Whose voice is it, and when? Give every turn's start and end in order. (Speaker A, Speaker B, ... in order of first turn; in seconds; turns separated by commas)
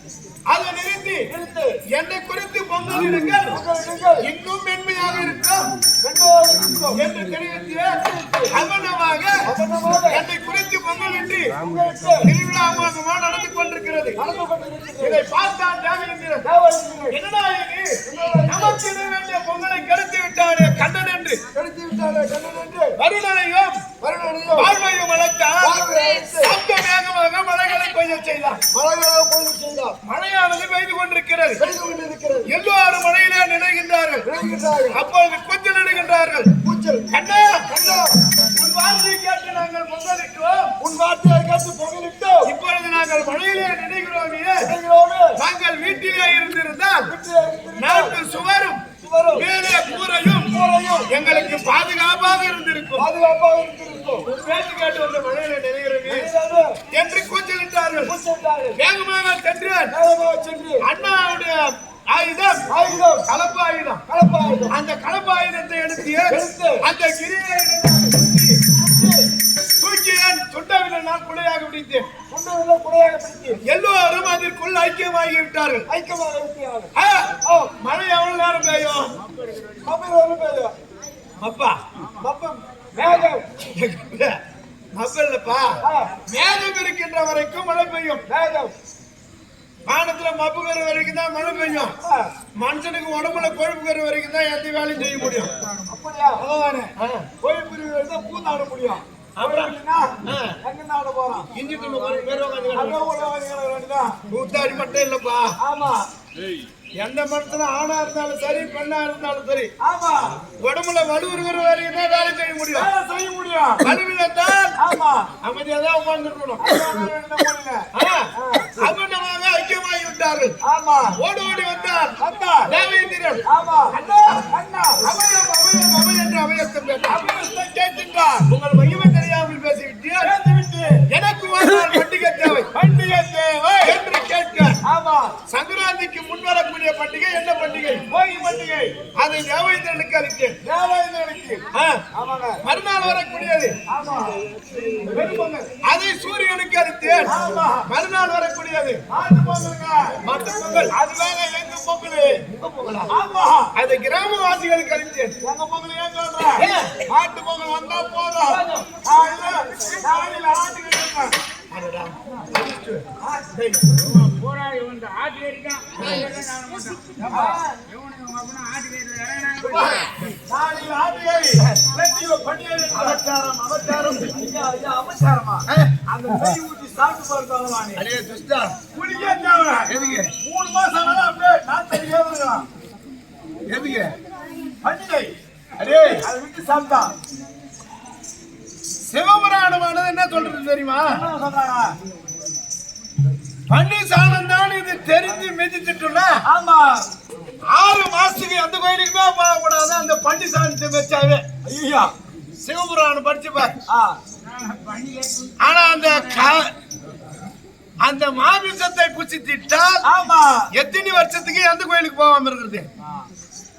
Speaker A: 0.5-1.3, Speaker B: 1.3-1.8, Speaker A: 1.9-3.6, Speaker B: 3.5-4.2, Speaker A: 4.2-5.8, Speaker B: 6.0-7.1, Speaker A: 6.9-9.3, Speaker B: 7.9-8.7, Speaker B: 9.4-10.2, Speaker A: 10.1-11.6, Speaker B: 11.6-12.3, Speaker A: 12.2-14.2, Speaker B: 14.2-15.2, Speaker A: 15.0-16.5, Speaker B: 16.4-17.2, Speaker A: 17.1-17.9, Speaker B: 18.1-18.8, Speaker A: 18.4-21.4, Speaker B: 21.5-22.9, Speaker A: 23.0-23.9, Speaker B: 24.0-24.8, Speaker A: 24.5-25.8, Speaker B: 25.6-26.6, Speaker A: 26.4-28.6, Speaker B: 28.7-30.0, Speaker A: 30.0-31.6, Speaker B: 31.6-32.5, Speaker A: 32.5-34.3, Speaker B: 34.2-35.0, Speaker A: 34.9-36.5, Speaker B: 36.6-37.1, Speaker A: 37.1-37.7, Speaker B: 37.7-38.1, Speaker A: 38.5-40.7, Speaker B: 40.8-42.5, Speaker A: 42.4-44.7, Speaker B: 44.6-45.4, Speaker A: 45.4-47.1, Speaker B: 47.0-48.1, Speaker A: 47.8-50.5, Speaker B: 49.0-49.5, Speaker B: 50.4-51.6, Speaker A: 51.1-53.1, Speaker B: 53.0-54.2, Speaker A: 54.2-56.3, Speaker B: 56.0-56.8, Speaker A: 56.9-58.1, Speaker B: 58.0-58.8, Speaker A: 58.8-59.9, Speaker B: 59.9-60.9, Speaker A: 60.8-62.7, Speaker B: 62.7-63.3, Speaker A: 63.2-64.0, Speaker B: 64.1-64.7, Speaker A: 64.7-68.6, Speaker B: 66.3-66.8, Speaker B: 68.7-69.3, Speaker A: 69.8-72.1, Speaker B: 72.3-73.6, Speaker A: 73.6-75.9, Speaker B: 75.9-76.9, Speaker A: 77.0-79.1, Speaker C: 79.1-79.9, Speaker B: 79.8-80.7, Speaker A: 81.4-81.8, Speaker B: 82.2-83.4, Speaker A: 83.0-84.3, Speaker A: 84.9-88.2, Speaker B: 85.8-86.1, Speaker B: 88.3-88.7, Speaker A: 89.9-92.0, Speaker A: 92.6-95.6, Speaker B: 95.9-96.4, Speaker D: 96.4-96.9, Speaker A: 97.0-97.3, Speaker D: 97.4-100.1, Speaker B: 97.5-98.4, Speaker A: 99.3-100.6, Speaker B: 100.7-101.5, Speaker A: 101.5-103.1, Speaker B: 102.0-102.2, Speaker D: 102.7-104.2, Speaker B: 102.9-103.4, Speaker A: 104.3-105.5, Speaker A: 107.0-109.7, Speaker D: 109.8-110.2, Speaker A: 110.6-112.9, Speaker D: 112.7-113.9, Speaker A: 113.8-114.7, Speaker D: 114.8-115.3, Speaker A: 115.4-116.8, Speaker D: 116.6-117.9, Speaker A: 117.9-120.5, Speaker D: 120.7-121.1, Speaker A: 121.1-127.3, Speaker D: 122.2-122.6, Speaker B: 123.5-123.9, Speaker D: 123.6-124.0, Speaker D: 124.5-125.0, Speaker D: 127.1-128.5, Speaker A: 128.4-130.3, Speaker D: 130.2-131.0, Speaker A: 131.1-132.7, Speaker D: 132.7-134.0, Speaker A: 133.8-134.8, Speaker D: 134.8-135.3, Speaker A: 135.4-138.1, Speaker D: 138.1-138.9, Speaker A: 139.2-140.6, Speaker D: 140.6-141.6, Speaker B: 142.1-142.5, Speaker A: 142.6-143.8, Speaker D: 143.9-144.3, Speaker D: 145.1-145.7, Speaker B: 145.1-145.5, Speaker A: 145.8-149.0, Speaker D: 147.2-147.9, Speaker D: 149.1-150.2, Speaker A: 150.2-151.0, Speaker D: 150.9-151.8, Speaker A: 151.7-153.1, Speaker D: 153.1-153.7, Speaker A: 153.7-155.4, Speaker D: 155.4-161.3, Speaker A: 156.5-157.0, Speaker A: 161.7-163.1, Speaker D: 163.2-163.8, Speaker C: 163.9-170.1, Speaker A: 167.2-167.6, Speaker D: 167.3-167.6, Speaker A: 169.7-170.1, Speaker D: 170.4-178.0, Speaker A: 172.9-174.3, Speaker A: 175.7-176.0, Speaker A: 177.9-178.8, Speaker D: 178.9-182.7, Speaker A: 179.9-180.3, Speaker A: 183.7-184.1, Speaker D: 184.8-185.3, Speaker A: 185.8-186.3, Speaker D: 185.8-187.1, Speaker A: 189.1-191.2, Speaker D: 191.1-191.9, Speaker A: 193.7-196.4, Speaker D: 196.4-197.0, Speaker A: 197.7-201.4, Speaker D: 201.7-202.1, Speaker A: 202.6-203.8, Speaker C: 204.4-206.6, Speaker A: 205.6-206.7, Speaker A: 208.0-210.0, Speaker D: 210.0-210.7, Speaker A: 210.7-212.9